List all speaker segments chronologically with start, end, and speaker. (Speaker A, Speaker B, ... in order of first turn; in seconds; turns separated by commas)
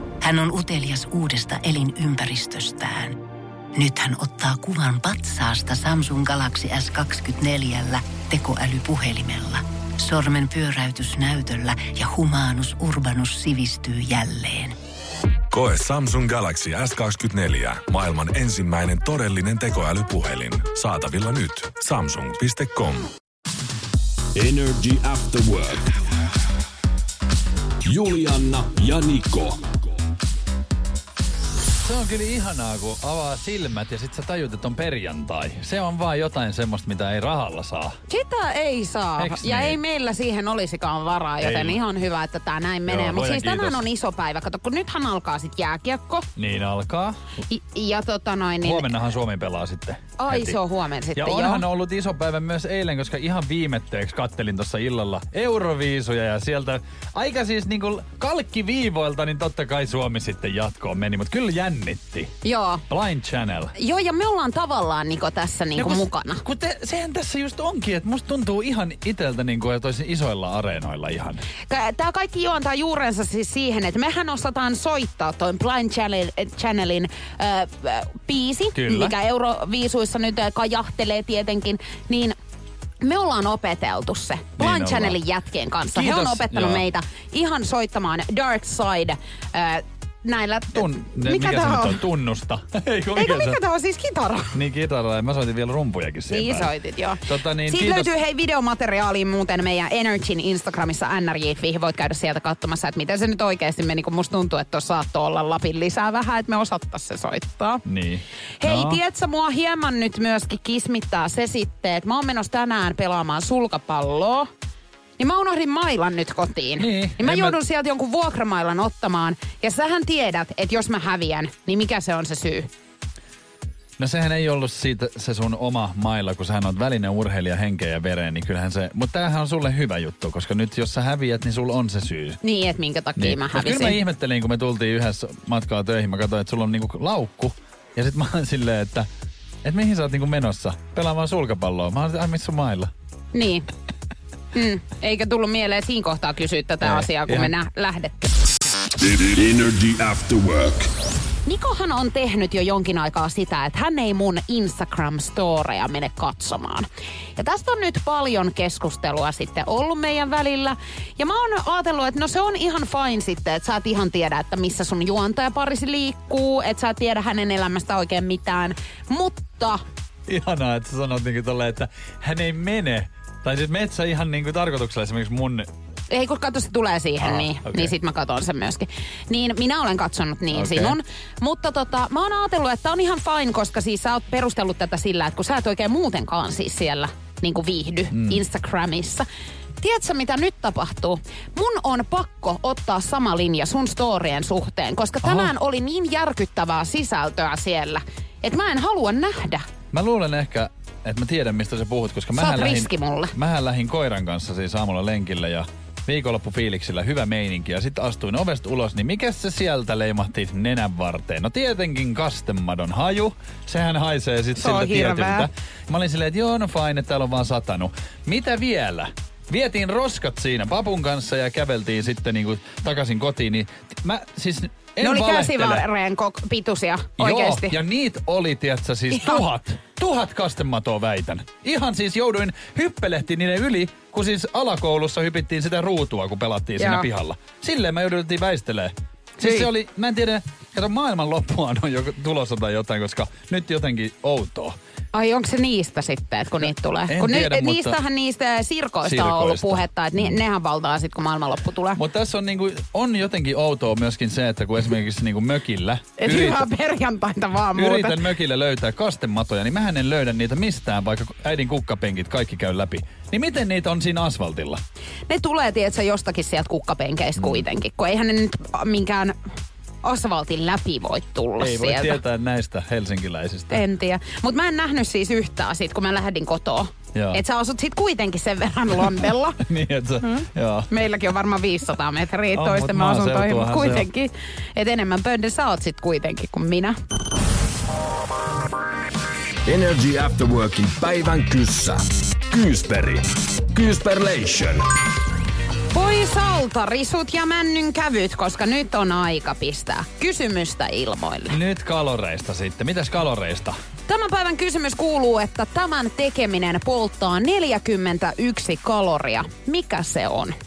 Speaker A: 0.2-3.2, Speaker A: 3.8-14.8, Speaker B: 15.5-23.1, Speaker C: 24.4-25.9, Speaker C: 27.9-29.8, Speaker D: 31.8-38.0, Speaker E: 38.1-46.3, Speaker D: 39.2-39.8, Speaker D: 41.4-41.8, Speaker D: 42.9-43.9, Speaker D: 46.4-47.2, Speaker E: 47.5-48.9, Speaker D: 48.6-50.6, Speaker E: 50.2-51.6, Speaker D: 51.1-62.4, Speaker E: 62.4-62.8, Speaker D: 62.9-63.8, Speaker E: 63.8-66.4, Speaker D: 65.8-71.4, Speaker E: 71.7-82.4, Speaker D: 78.8-79.2, Speaker E: 83.0-92.0, Speaker D: 84.6-85.2, Speaker D: 85.9-86.8, Speaker D: 90.7-93.6, Speaker E: 93.2-94.5, Speaker D: 94.5-96.7, Speaker E: 96.3-107.8, Speaker D: 97.2-98.1, Speaker D: 107.9-109.0, Speaker E: 108.6-114.5, Speaker E: 115.2-122.7, Speaker D: 116.8-117.6, Speaker D: 124.0-132.4, Speaker E: 132.4-134.0, Speaker D: 133.2-139.1, Speaker D: 139.6-142.9, Speaker E: 143.3-143.7, Speaker E: 144.6-148.3, Speaker D: 146.8-147.5, Speaker C: 149.0-150.9, Speaker E: 151.5-156.9, Speaker E: 157.4-169.8, Speaker D: 170.3-175.7, Speaker E: 176.1-189.2, Speaker D: 177.2-177.9, Speaker D: 180.5-181.0, Speaker D: 188.1-188.4, Speaker E: 189.8-199.6, Speaker D: 195.2-195.5, Speaker D: 199.9-225.9, Speaker E: 202.4-203.3, Speaker E: 214.6-215.5, Speaker E: 225.0-227.8, Speaker D: 227.2-244.8, Speaker E: 236.8-237.1, Speaker E: 239.4-239.7, Speaker E: 245.1-252.0, Speaker D: 247.1-248.0, Speaker D: 249.0-250.4, Speaker D: 252.0-256.7, Speaker E: 256.2-258.2, Speaker D: 257.8-264.8, Speaker E: 265.3-269.4, Speaker D: 267.4-267.6, Speaker E: 270.0-272.2, Speaker D: 271.6-273.8, Speaker E: 273.7-279.6, Speaker D: 277.1-277.4, Speaker D: 279.6-280.9, Speaker E: 280.2-286.9, Speaker D: 282.5-284.1, Speaker C: 289.6-294.8, Speaker E: 295.9-301.6, Speaker D: 301.5-303.8, Speaker E: 304.1-310.6